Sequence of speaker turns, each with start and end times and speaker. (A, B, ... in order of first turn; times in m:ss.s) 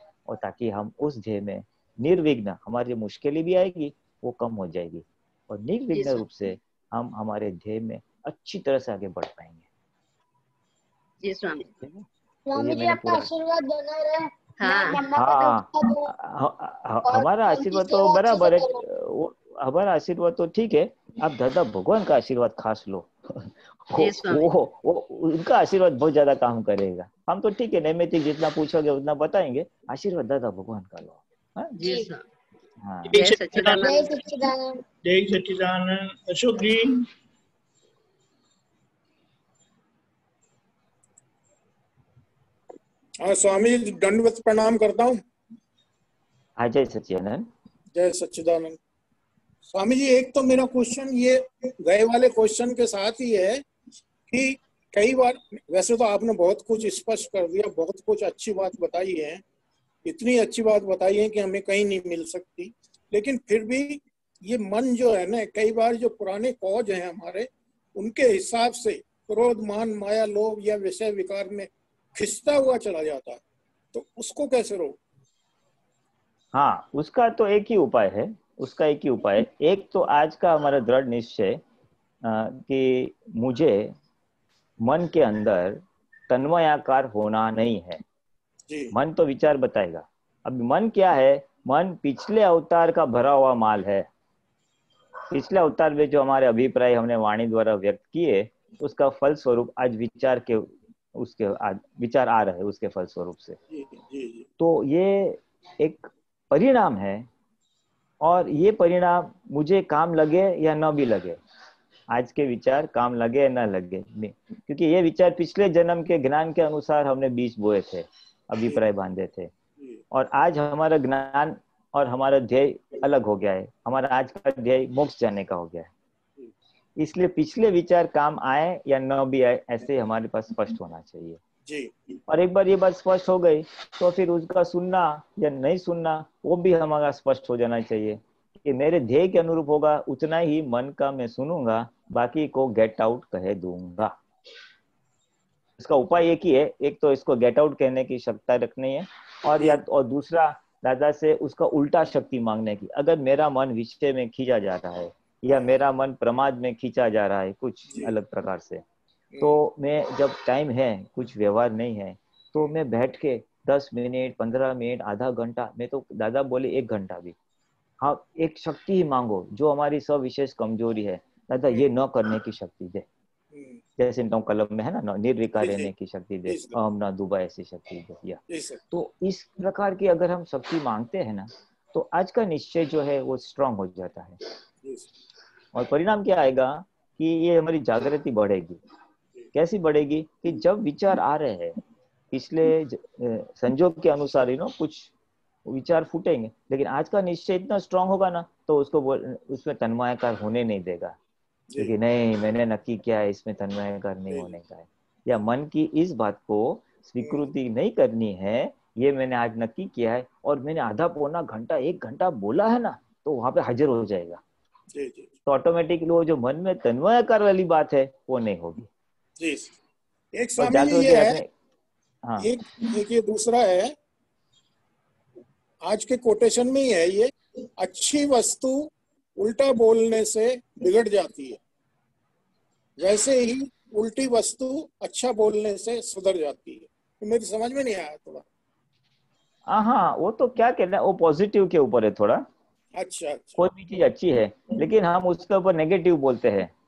0:00.2-0:09.7 A
0:05.9-0:06.2 B
0:11.2-0:11.7 B
0:11.8-0:13.3 A
0:12.5-0:16.1 C
0:14.6-0:15.0 B
0:15.1-0:31.8 A
0:17.0-0:18.8 C
0:24.0-0:24.5 B
0:31.8-0:32.2 B
0:31.8-0:32.1 C
0:32.8-0:33.1 A
0:33.1-0:33.9 D
0:33.1-0:34.1 B
0:33.8-0:34.8 C
0:35.0-0:37.1 D
0:43.2-0:45.2 E
0:46.6-0:47.5 A
0:47.9-0:48.8 E
0:49.7-0:53.6 E
0:54.3-0:59.4 E
1:00.0-1:13.4 E
1:13.9-1:15.0 E
1:16.5-1:21.6 A
1:22.2-1:23.9 A
1:24.8-1:28.0 A
1:28.7-1:28.9 E
1:28.9-1:34.1 A
1:35.3-1:43.6 A
1:43.7-1:44.5 E
1:44.6-1:47.3 A
1:48.2-1:51.4 A
1:52.1-1:59.5 A
1:59.8-2:00.0 E
2:00.1-2:05.9 A
2:07.0-2:11.4 A
2:11.6-2:12.1 E
2:12.3-2:24.2 A
2:25.8-2:38.8 A
2:29.5-2:29.8 E
2:39.3-2:39.6 E
2:39.4-2:47.4 A
2:48.0-2:53.0 A
2:53.5-2:53.8 E
2:54.0-3:04.4 A
2:55.6-2:55.9 E
2:56.4-2:56.8 E
2:58.5-2:58.8 E
3:05.7-3:08.8 A
3:09.5-3:11.8 A
3:12.3-3:15.1 A
3:15.6-3:21.2 A
3:21.7-3:21.9 E
3:21.8-3:34.4 A
3:24.3-3:24.6 E
3:27.2-3:27.5 E
3:34.9-3:35.3 E
3:35.4-3:38.9 A
3:39.4-3:39.7 E
3:40.3-3:41.4 E
3:40.6-3:41.5 A
3:42.2-3:42.5 A
3:42.4-3:43.9 E
3:45.9-3:51.6 E
3:53.0-3:58.4 E
3:59.7-4:02.4 A
4:03.0-4:03.6 E
4:03.6-4:06.7 A